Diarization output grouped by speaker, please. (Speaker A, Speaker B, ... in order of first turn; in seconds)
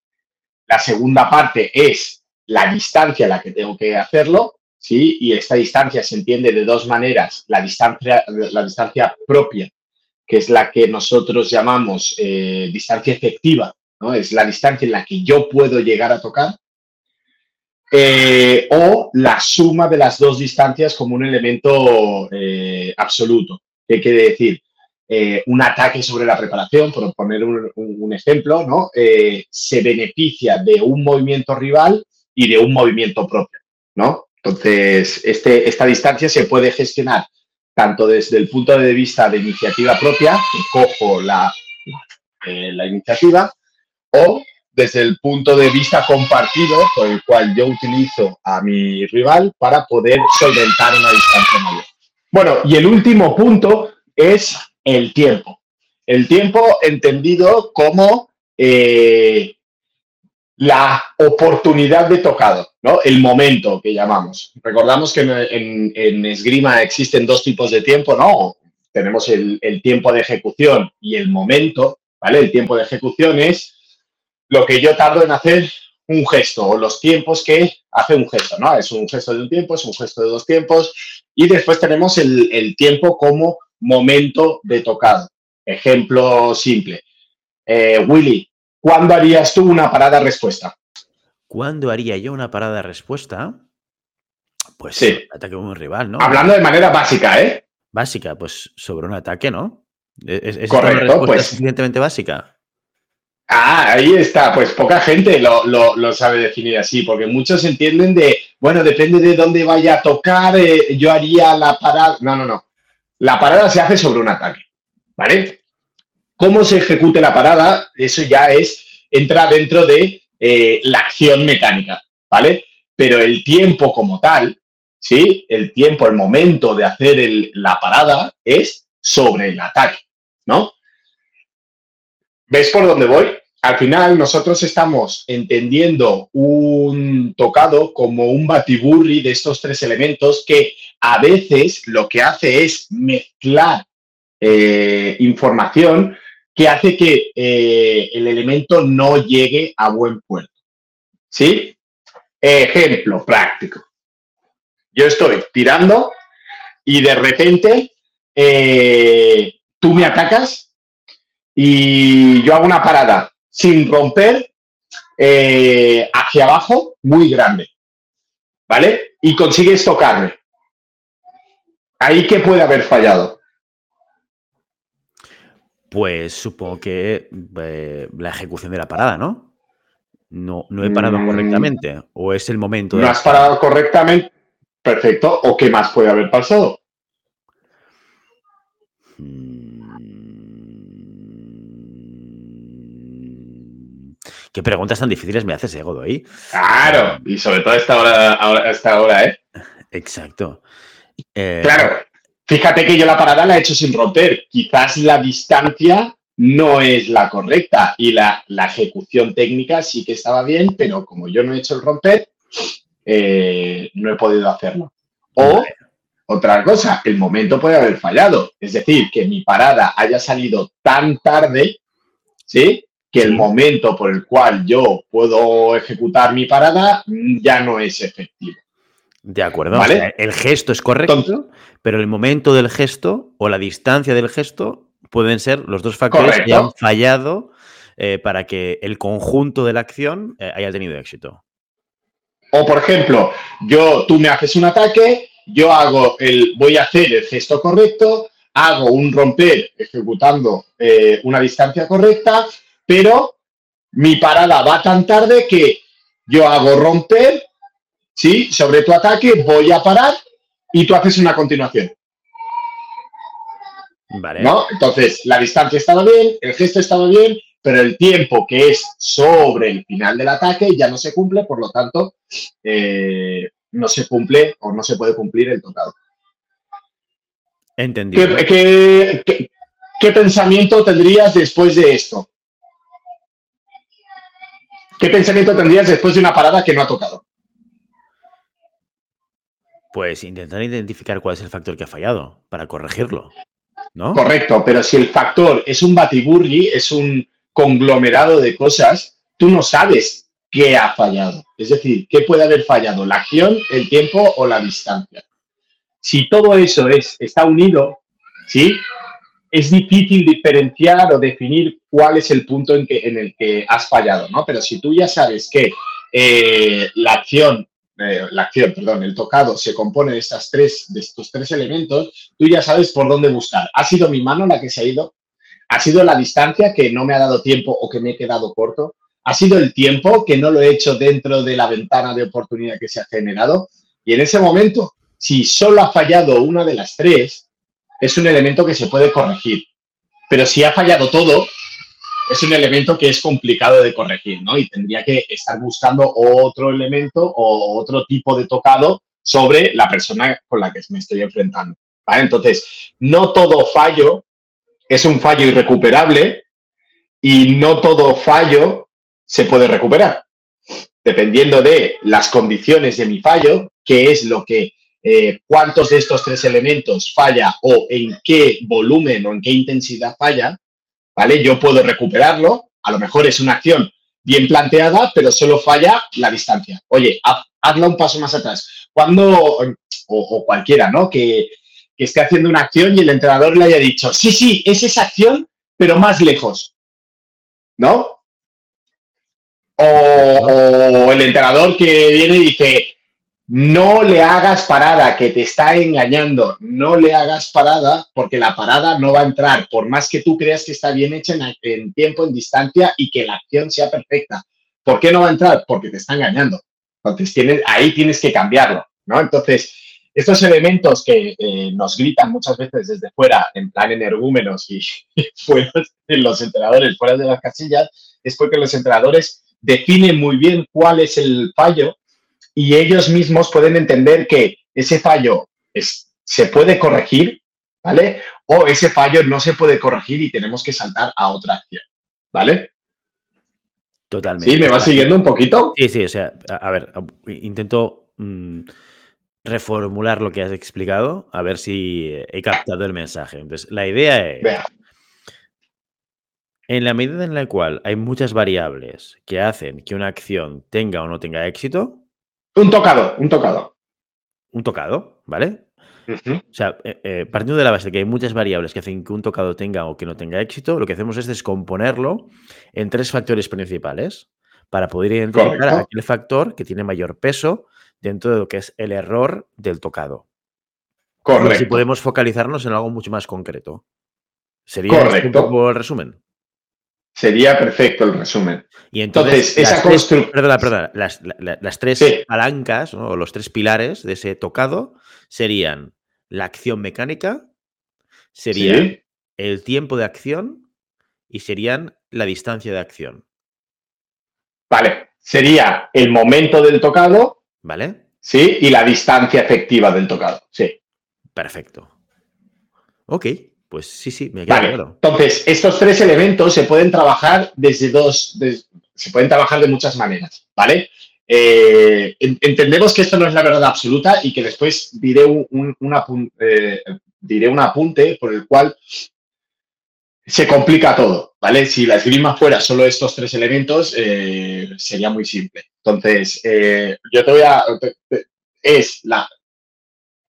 Speaker A: 0.7-9.7, 10.3-16.6, 17.9-43.5, 44.1-59.5, 60.6-73.7, 74.5-87.0, 87.7-90.7, 95.0-95.2, 96.2-97.6, 100.7-101.5, 103.5-112.6, 113.2-114.6, 115.2-115.6, 116.4-130.7, 132.5-143.8, 144.4-150.5, 151.3-151.8, 152.4-153.8, 154.9-156.1, 156.8-160.7, 161.6-164.5, 165.2-167.7, 168.7-170.4, 172.0-173.4, 180.8-181.7, 182.9-184.3, 184.8-186.8, 196.5-199.4, 201.6-212.3, 213.0-215.7, 216.3-221.8, 222.5-228.6, 229.7-230.1, 236.1-236.7, 242.5-253.3, 253.9-257.5, 258.1-260.1, 260.7-261.9, 264.4-275.9, 278.1-279.5, 280.0-282.3, 285.0-287.2, 294.1-305.2, 306.0-308.8, 309.5-325.1, 325.7-337.4, 338.0-339.7, 340.3-341.5, 342.3-354.2, 354.9-356.4, 357.2-360.2, 361.0-370.6, 371.1-386.7, 387.8-388.2, 389.8-392.9, 393.5-421.9, 422.5-432.7, 434.4-435.7, 452.6-453.7, 456.1-456.4, 465.3-465.8, 471.2-471.8, 474.9-475.5, 477.1-480.3, 482.0-482.2, 488.5-489.0, 494.7-497.4, 498.2-500.7, 504.5-518.8, 520.3-529.3
Speaker B: 91.5-93.6, 94.8-96.5, 97.9-102.5, 175.9-179.5, 180.3-183.5, 189.2-193.9, 194.5-196.3, 196.8-197.2, 199.9-200.6, 201.3-201.9, 215.4-215.7, 223.2-223.5, 229.2-241.4, 264.1-264.5, 277.8-278.5, 289.9-293.3, 293.9-294.2, 389.9-390.6, 434.1-435.2, 435.7-438.7, 439.4-444.5, 446.7-452.0, 454.5-455.6, 456.5-470.2, 471.3-473.8, 474.7-476.2, 478.9-487.5, 488.3-490.6, 491.3-493.2, 497.6-498.0, 501.3-501.9, 503.1-505.0